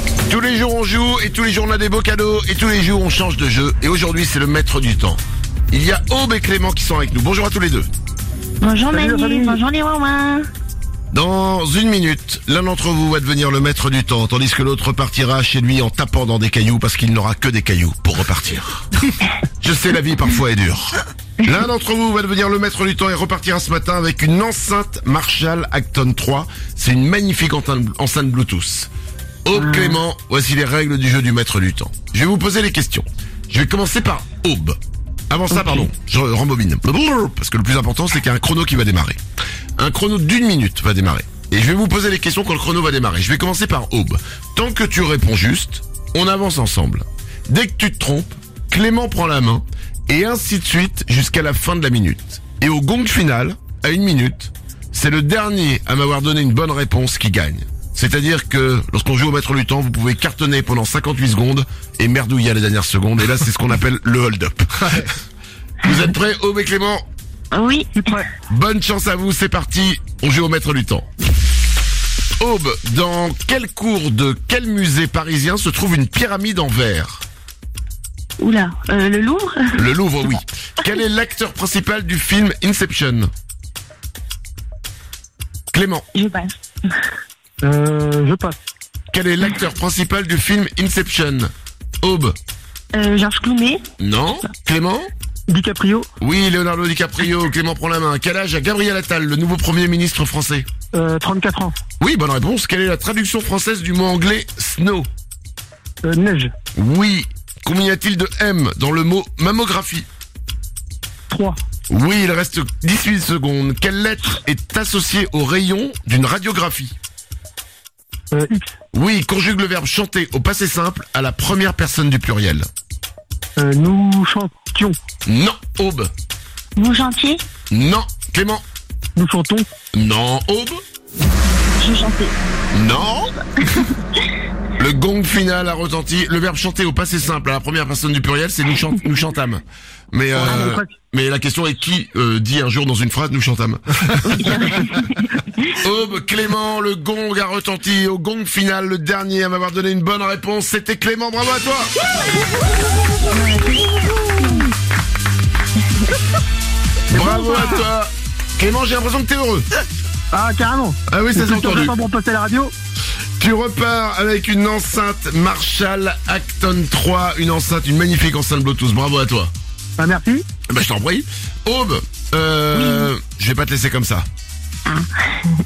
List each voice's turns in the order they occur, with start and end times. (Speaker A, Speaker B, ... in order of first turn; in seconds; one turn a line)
Speaker A: 0.3-7.9
Speaker B: 8.6-10.4
Speaker C: 8.9-9.6
Speaker A: 11.1-18.9
Speaker A: 19.6-28.9
Speaker A: 29.4-34.8
Speaker A: 35.3-39.2
Speaker A: 39.8-65.2
Speaker A: 65.8-67.0
Speaker B: 67.5-68.0
Speaker C: 68.0-68.3
Speaker A: 68.5-71.1
Speaker A: 72.4-77.2
Speaker B: 78.4-79.7
Speaker A: 79.8-83.3
Speaker A: 85.7-86.0
Speaker B: 86.1-86.5
Speaker C: 87.6-88.6
Speaker A: 89.1-91.5
Speaker A: 92.0-92.3
Speaker B: 92.9-93.8
Speaker A: 94.0-95.1
Speaker C: 95.5-96.1
Speaker A: 96.2-100.7
Speaker C: 100.9-101.7
Speaker A: 102.0-105.1
Speaker C: 106.0-106.5
Speaker A: 106.7-110.1
Speaker C: 111.3-111.6
Speaker A: 111.9-117.0
Speaker C: 118.3-118.7
Speaker A: 118.9-122.7
Speaker C: 123.6-124.9
Speaker A: 125.2-126.1
Speaker B: 126.8-127.4
Speaker A: 127.7-128.6
Speaker C: 129.2-129.7
Speaker A: 129.9-130.8
Speaker B: 131.8-132.3
Speaker A: 132.7-133.3
Speaker A: 134.8-144.9
Speaker C: 140.3-140.9
Speaker B: 144.2-145.3
Speaker A: 145.8-151.9
Speaker B: 153.3-154.7
Speaker C: 157.1-157.8
Speaker A: 157.1-159.7
Speaker C: 160.3-162.7
Speaker A: 161.1-161.9
Speaker A: 163.4-169.5
Speaker C: 170.0-170.4
Speaker A: 170.7-174.2
Speaker B: 172.7-173.1
Speaker B: 174.8-175.5